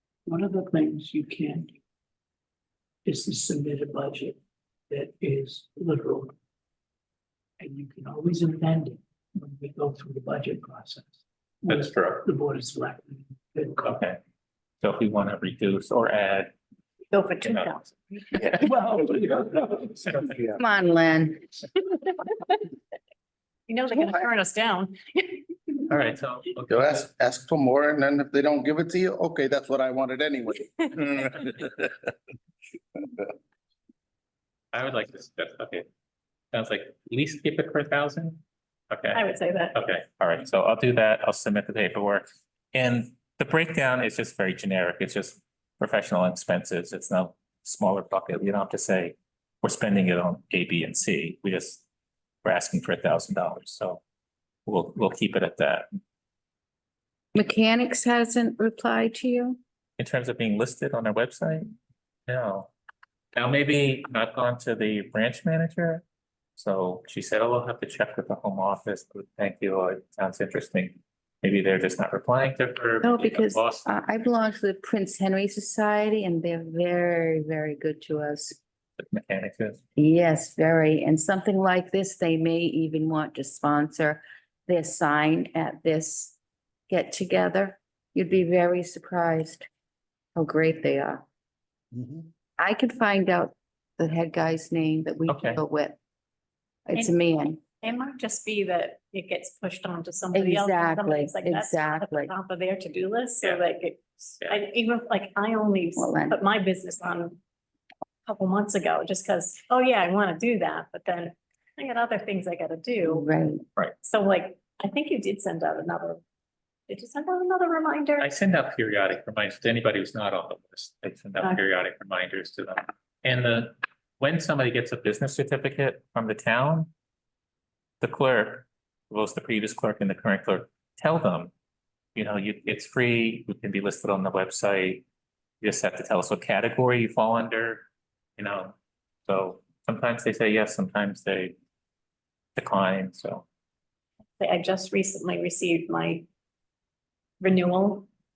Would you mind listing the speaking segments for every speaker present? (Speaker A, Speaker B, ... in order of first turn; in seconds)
Speaker A: 0.3-1.8, 3.0-4.4, 4.9-6.3, 7.6-14.0, 17.1-20.3, 23.7-24.0
Speaker B: 11.7-12.2, 13.8-14.2, 14.8-16.5, 17.4-17.9, 25.9-27.1, 34.7-35.9, 36.5-38.4, 38.9-51.8, 52.4-54.0, 54.7-55.9, 60.0-61.7, 62.3-62.7, 63.4-66.0, 66.6-73.9, 79.0-79.8, 95.3-95.6, 118.2-126.9, 128.0-131.5, 132.2-135.0, 135.6-137.9, 138.4-138.8, 139.3-141.6, 142.6-143.4
Speaker C: 20.5-21.5, 57.3-59.6, 73.0-78.6, 80.0-86.4, 86.9-89.7, 90.3-91.2, 92.6-96.0, 96.9-97.6, 100.3-102.3, 106.0-106.5, 113.0-113.7
Speaker D: 24.0-25.4, 39.2-39.7, 97.8-107.3, 108.3-113.2, 114.0-116.2, 116.9-118.2, 144.4-146.2, 147.4-148.1
Speaker E: 26.7-31.9